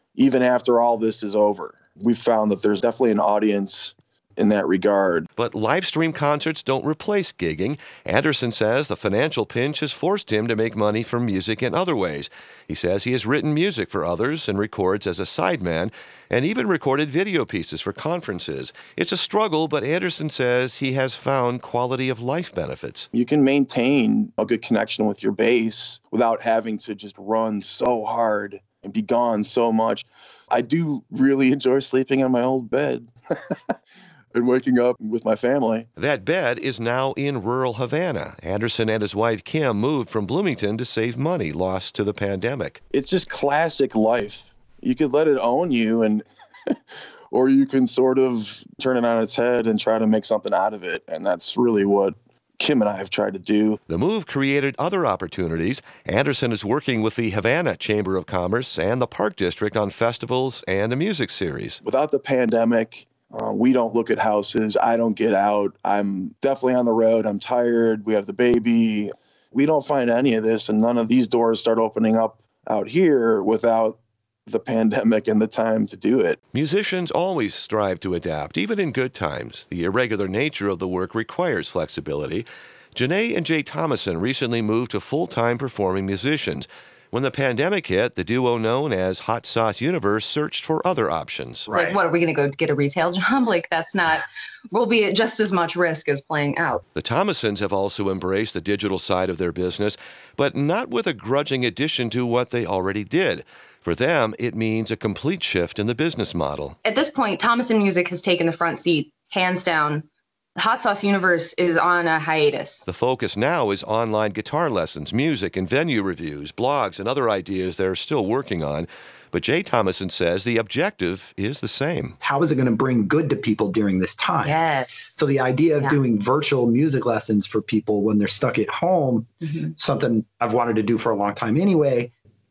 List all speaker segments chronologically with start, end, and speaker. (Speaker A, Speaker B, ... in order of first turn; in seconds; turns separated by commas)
Speaker A: 0.1-5.3, Speaker B: 5.4-23.1, Speaker A: 23.1-33.1, Speaker A: 34.3-35.9, Speaker B: 36.0-42.8, Speaker A: 42.9-46.2, Speaker A: 47.3-53.8, Speaker B: 53.9-61.8, Speaker A: 61.8-76.4, Speaker B: 76.5-91.7, Speaker C: 91.7-96.8, Speaker B: 96.9-106.8, Speaker C: 106.8-110.0, Speaker C: 110.6-112.8, Speaker B: 112.9-122.2, Speaker D: 122.2-124.6, Speaker C: 124.4-125.1, Speaker D: 125.2-132.1